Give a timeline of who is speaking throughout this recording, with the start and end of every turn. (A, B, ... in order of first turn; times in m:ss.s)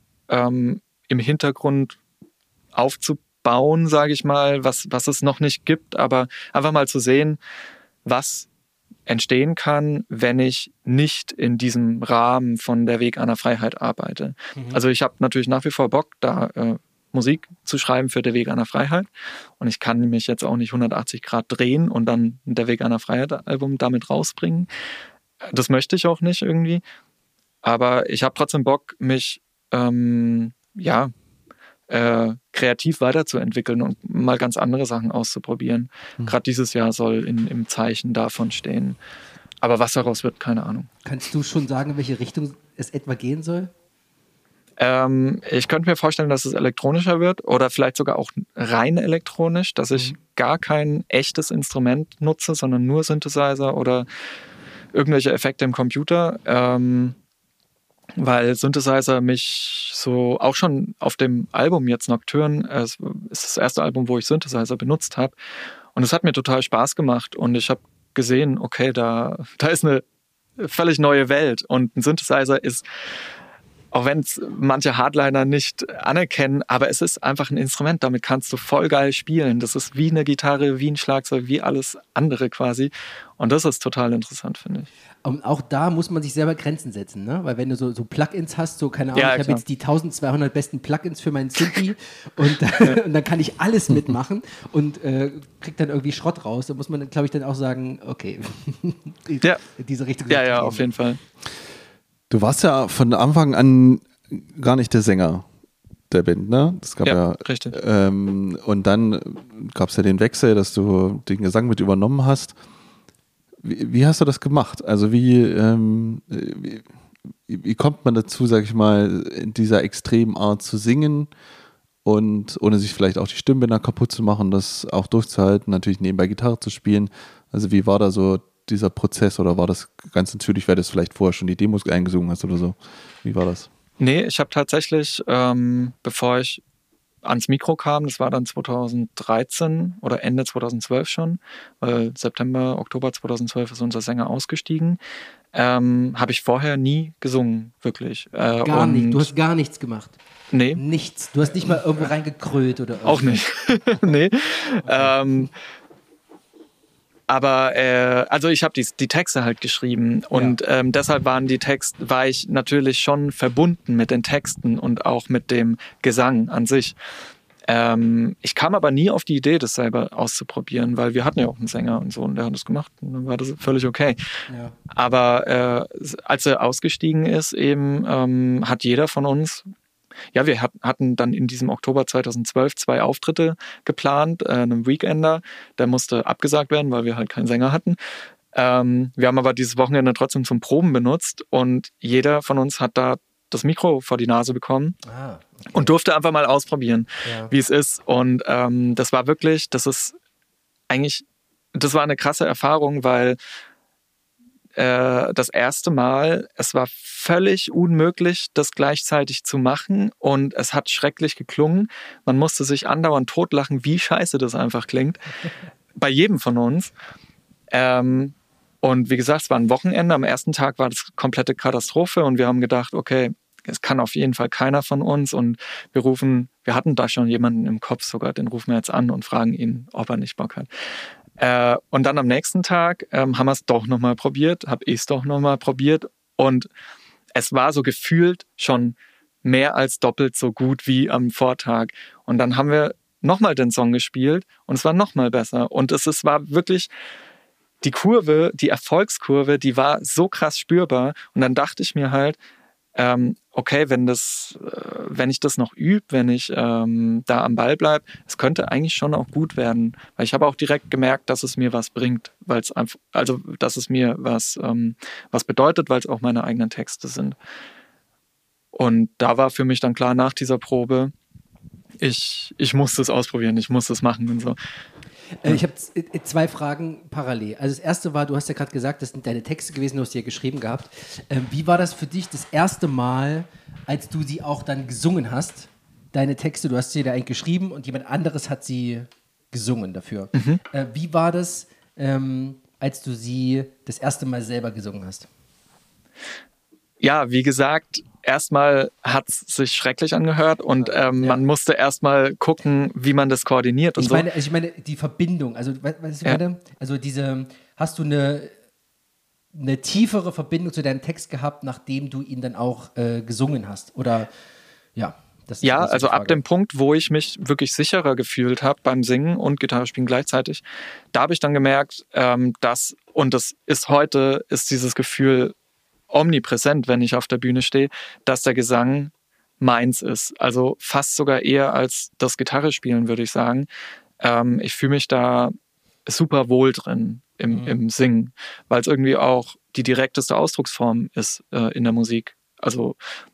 0:00.3-0:02.0 A
0:02.7-0:07.4 A
0:08.0-0:08.5 A
0:09.1-0:19.1 A
0:14.6-0:14.8 B
0:19.6-0:24.7 A
0:25.4-0:26.8 A
0:27.6-0:31.1 A
0:31.9-0:39.0 A
0:39.6-0:40.9 A
0:41.0-0:43.7 B
0:44.8-0:54.1 A
0:54.9-0:57.2 A
0:58.2-1:05.3 A
1:05.9-1:10.0 A
1:10.6-1:12.8 A
1:13.9-1:24.9 A
1:25.2-1:40.8 B
1:29.1-1:29.6 A
1:40.3-1:41.2 A
1:42.3-1:45.4 C
1:46.1-1:52.6 C
1:47.0-1:47.8 A
1:53.6-1:56.9 C
1:57.5-2:01.3 C
2:02.0-2:13.7 C
2:14.0-2:16.6 A
2:17.2-2:25.0 A
2:25.5-2:29.3 A
2:28.6-2:30.2 B
2:30.5-2:30.8 A
2:30.8-2:33.4 B
2:33.0-2:35.5 A
2:34.9-2:35.2 B
2:37.3-2:47.0 A
2:40.3-2:40.6 B
2:47.7-2:54.4 A
2:54.5-2:54.7 B
2:54.9-2:59.7 A
3:00.3-3:08.0 A
3:08.5-3:15.0 A
3:15.0-3:15.9 B
3:15.7-3:20.1 A
3:17.2-3:17.5 B
3:20.9-3:21.2 A
3:21.7-3:23.4 A
3:24.8-3:35.2 A
3:36.0-3:36.9 A
3:37.7-3:50.7 A
3:51.4-3:56.7 A
3:57.3-4:06.9 A
4:07.8-4:12.4 A
4:13.0-4:27.4 A
4:28.7-4:31.1 A
4:32.0-4:34.6 A
4:35.4-4:55.3 B
4:50.3-4:50.6 A
4:57.0-5:04.3 A
5:00.8-5:01.4 B
5:04.0-5:08.5 B
5:09.5-5:14.3 B
5:15.0-5:16.4 B
5:15.6-5:25.5 A
5:26.1-5:33.7 A
5:34.2-5:35.5 A
5:36.0-5:43.0 A
5:37.5-5:37.8 B